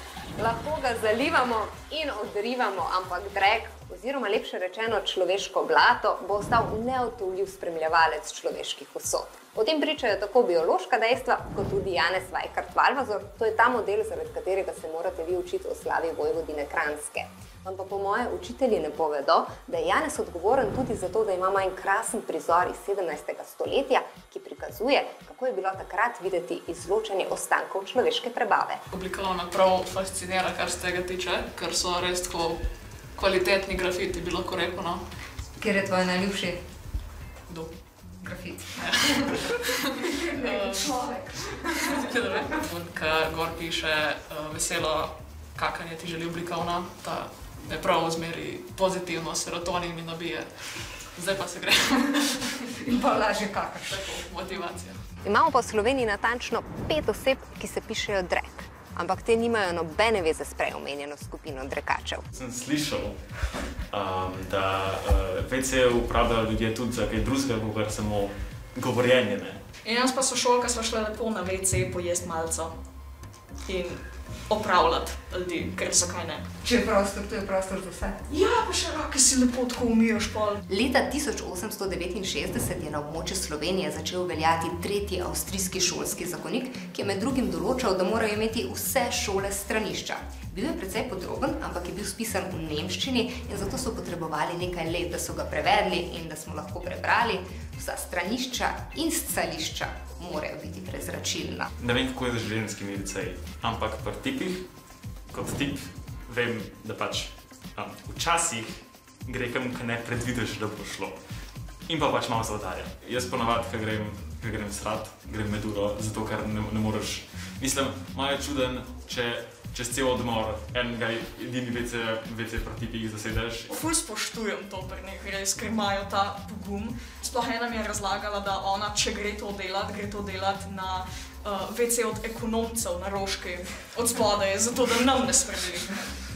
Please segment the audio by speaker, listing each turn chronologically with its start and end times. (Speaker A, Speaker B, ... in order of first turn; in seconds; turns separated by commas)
Speaker A: 0.4-28.6, Speaker B: 28.9-32.6, Speaker B: 33.1-35.0, Speaker C: 35.6-36.6, Speaker C: 38.2-39.5, Speaker B: 38.8-52.8, Speaker D: 40.8-41.2, Speaker C: 52.8-54.0, Speaker B: 53.9-55.0, Speaker A: 55.2-57.7, Speaker C: 57.9-58.9, Speaker A: 58.9-62.2, Speaker E: 62.3-69.6, Speaker D: 69.8-72.7, Speaker D: 73.6-76.5, Speaker C: 76.6-78.2, Speaker D: 78.3-80.6, Speaker C: 80.7-101.7, Speaker E: 101.8-104.7, Speaker E: 105.3-111.2, Speaker E: 111.9-123.7, Speaker D: 123.7-136.0